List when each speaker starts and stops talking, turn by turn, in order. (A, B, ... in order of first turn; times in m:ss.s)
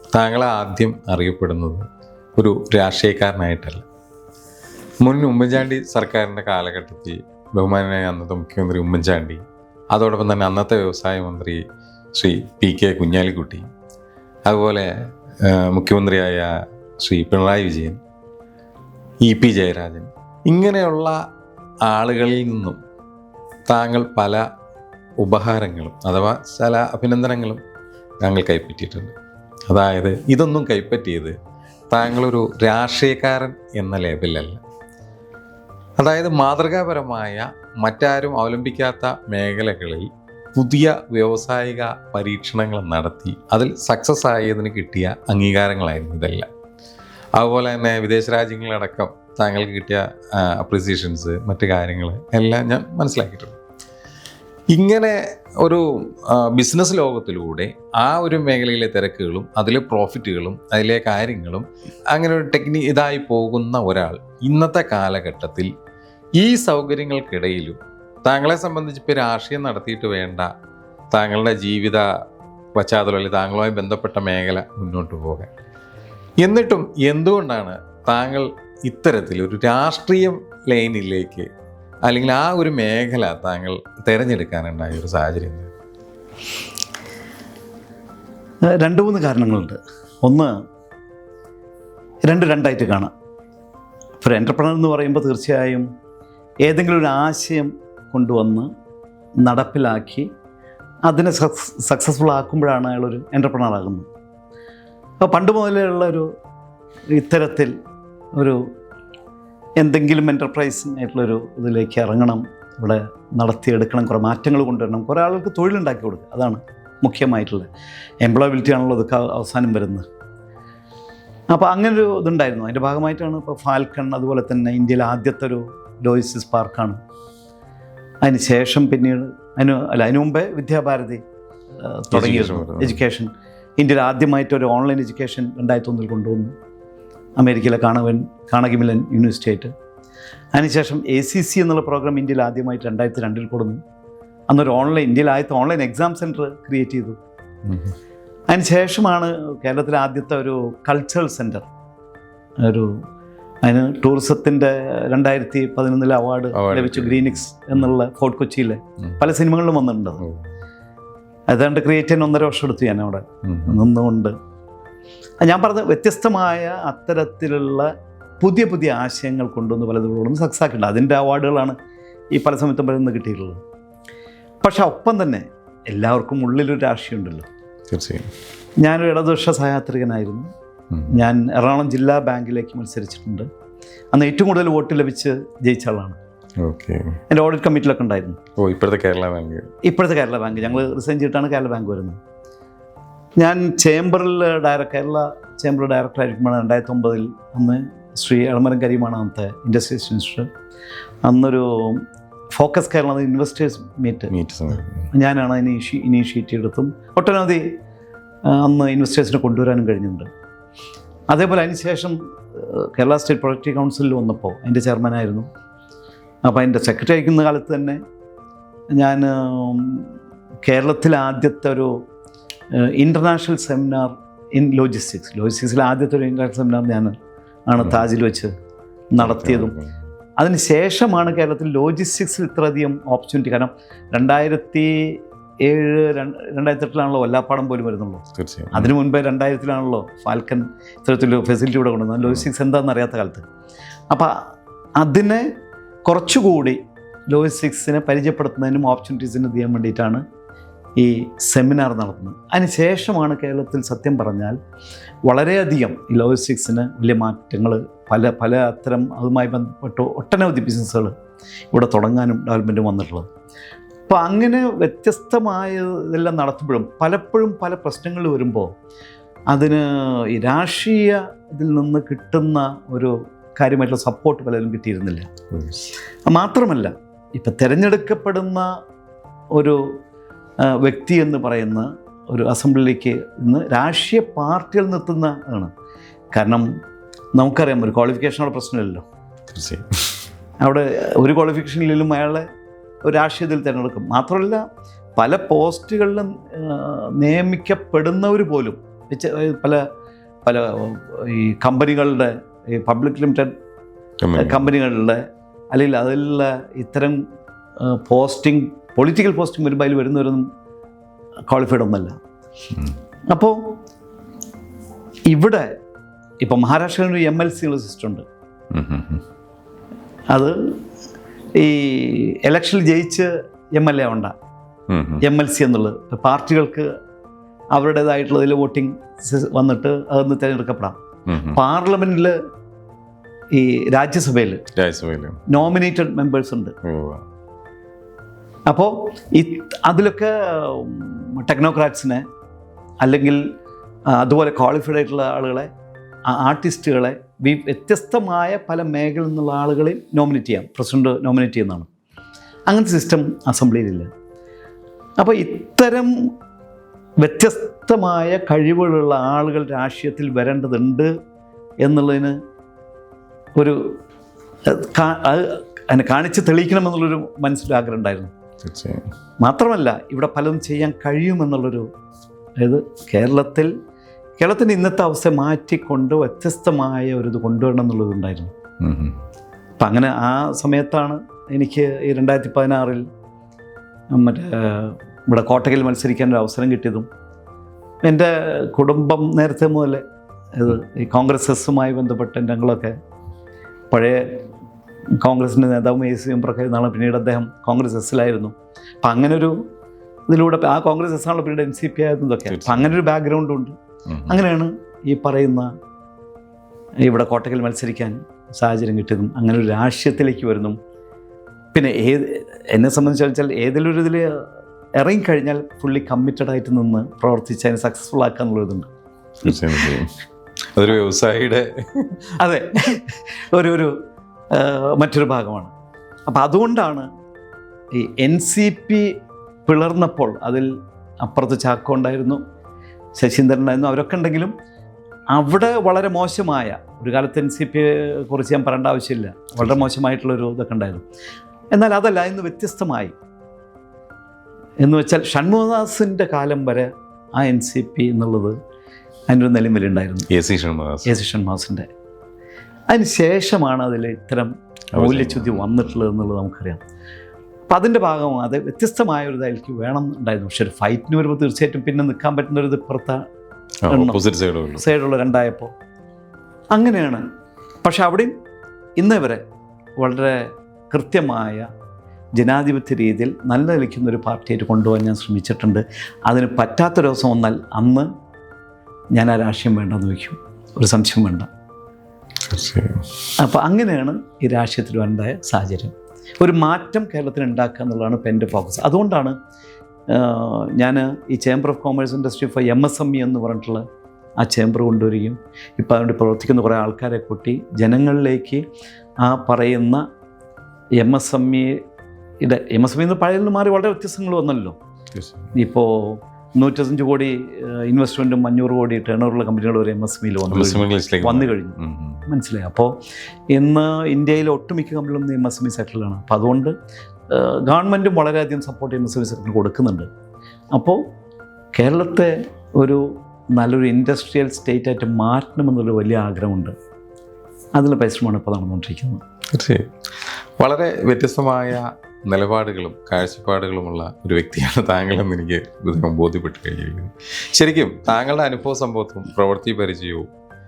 0:00.1-0:01.8 A
0:02.4-0:03.8 A
0:05.0-0:11.6 A
0:12.1-0:13.6 A
0:14.4-0:14.9 A
0:15.4-0:18.0 A
0:19.2-0:21.2 A
0:21.8-0:22.8 A
0:23.7-0:24.4 A
0:25.2-0:27.6 A
0:28.2-0:29.1 A
0:29.7-0:31.3 A
0:31.9-0:34.6 A
0:36.0-0:46.5 A
0:47.4-0:53.6 A
0:54.7-1:05.7 A
1:06.4-1:10.5 A
1:11.1-1:12.1 A
1:12.7-1:15.5 A
1:16.4-1:21.5 A
1:22.0-1:25.7 A
1:28.7-1:30.5 B
1:32.2-1:33.1 B
1:34.2-1:35.9 B
1:36.6-1:38.7 B
1:39.4-1:40.3 B
1:41.0-1:44.0 B
1:45.2-1:46.3 B
1:47.1-1:47.7 B
1:48.3-1:48.6 B
1:49.8-1:57.7 B
1:58.2-2:00.0 B
2:01.5-2:07.0 B
2:08.2-2:11.2 B
2:11.8-2:16.5 B
2:12.1-2:13.0 A
2:17.4-2:19.7 B
2:20.5-2:23.8 B
2:24.5-2:27.2 B
2:27.6-2:27.9 A
2:28.5-2:31.7 B
2:32.6-2:32.9 B
2:33.6-2:40.2 B
2:36.5-2:37.9 A
2:40.2-2:40.5 A
2:41.5-2:44.3 B
2:43.4-2:43.8 A
2:45.4-2:47.9 B
2:48.4-2:51.7 B
2:52.3-2:53.6 B
2:54.6-2:57.4 B
2:57.9-2:58.3 A
2:58.8-3:00.5 B
3:00.9-3:01.2 A
3:01.1-3:03.5 B
3:04.1-3:06.2 B
3:06.6-3:07.2 A
3:07.3-3:08.4 B
3:08.6-3:09.7 A
3:09.8-3:12.2 B
3:13.4-3:20.5 B
3:21.2-3:24.3 B
3:24.3-3:25.1 A
3:25.1-3:27.7 B
3:28.4-3:30.3 B
3:31.3-3:35.5 B
3:36.4-3:38.0 B
3:38.9-3:40.1 B
3:40.6-3:42.0 B
3:42.8-3:47.1 B
3:47.7-3:48.5 B
3:47.8-3:48.0 A
3:49.1-3:49.7 B
3:49.2-3:50.0 A
3:50.4-4:03.4 B
3:58.3-3:58.9 A
4:04.1-4:04.4 B
4:05.0-4:05.5 B
4:06.0-4:10.2 B
4:11.0-4:14.6 B
4:15.2-4:21.1 B
4:21.7-4:23.2 B
4:24.1-4:28.7 B
4:29.5-4:35.3 B
4:35.5-4:35.9 A
4:36.2-4:38.7 B
4:39.5-4:40.0 B
4:40.7-4:45.7 B
4:46.3-4:46.7 B
4:47.3-4:49.0 B
4:49.5-4:49.8 A
4:50.6-4:52.4 B
4:53.0-4:54.6 B
4:55.2-4:59.8 B
5:00.4-5:03.5 B
5:04.2-5:04.6 A
5:04.3-5:07.2 B
5:07.8-5:10.4 B
5:11.5-5:12.1 B
5:13.3-5:13.8 B
5:15.3-5:15.7 B
5:16.4-5:18.2 B
5:18.7-5:19.2 A
5:20.3-5:20.7 B
5:21.6-5:24.3 B
5:24.9-5:25.2 A
5:25.2-5:26.9 B
5:27.7-5:31.0 B
5:31.3-5:31.6 A
5:31.5-5:32.3 B
5:33.5-5:34.6 B
5:34.8-5:35.4 A
5:35.5-5:36.7 B
5:36.8-5:37.2 A
5:38.7-5:42.2 B
5:43.0-5:43.4 B
5:44.1-5:45.7 B
5:46.3-5:51.9 B
5:52.7-5:54.1 B
5:55.2-5:56.1 B
5:57.2-6:01.1 B
6:01.8-6:02.4 B
6:04.7-6:08.3 B
6:08.6-6:09.0 A
6:09.4-6:11.8 B
6:12.6-6:13.7 B
6:14.4-6:18.5 B
6:18.8-6:19.2 A
6:19.8-6:23.0 B
6:24.1-6:27.0 B
6:28.0-6:30.0 B
6:30.5-6:32.9 B
6:33.9-6:34.4 B
6:35.2-6:39.6 B
6:40.3-6:43.7 B
6:42.5-6:43.0 A
6:44.1-6:44.4 A
6:44.3-6:45.7 B
6:47.0-6:50.8 B
6:51.7-6:54.4 B
6:55.0-6:58.9 B
6:59.4-7:00.1 A
6:59.4-6:59.8 B
7:00.7-7:02.2 A
7:02.4-7:03.9 B
7:04.5-7:05.7 B
7:06.3-7:07.1 B
7:07.9-7:09.1 B
7:09.6-7:10.7 B
7:11.2-7:12.4 B
7:13.1-7:14.5 B
7:15.3-7:21.0 B
7:19.6-7:19.9 A
7:21.7-7:23.1 B
7:24.8-7:28.6 B
7:29.3-7:30.3 B
7:30.3-7:31.1 A
7:31.0-7:31.9 B
7:32.9-7:36.8 B
7:34.9-7:35.9 A
7:37.7-7:43.2 B
7:43.8-7:44.8 A
7:43.9-7:44.2 B
7:44.8-7:45.7 B
7:46.7-7:47.2 B
7:47.8-7:48.3 B
7:49.0-7:49.4 B
7:50.0-7:51.6 B
7:52.4-7:58.1 B
7:59.1-8:01.5 B
8:02.5-8:03.0 A
8:03.4-8:09.4 B
8:10.1-8:13.8 B
8:14.4-8:18.6 B
8:19.2-8:20.0 B
8:21.0-8:21.8 B
8:22.4-8:24.8 B
8:25.1-8:25.5 A
8:25.5-8:33.0 B
8:30.5-8:32.2 A
8:33.5-8:36.7 B
8:37.3-8:40.1 B
8:40.7-8:41.0 B
8:41.7-8:46.7 B
8:47.7-8:49.2 B
8:49.5-9:00.2 A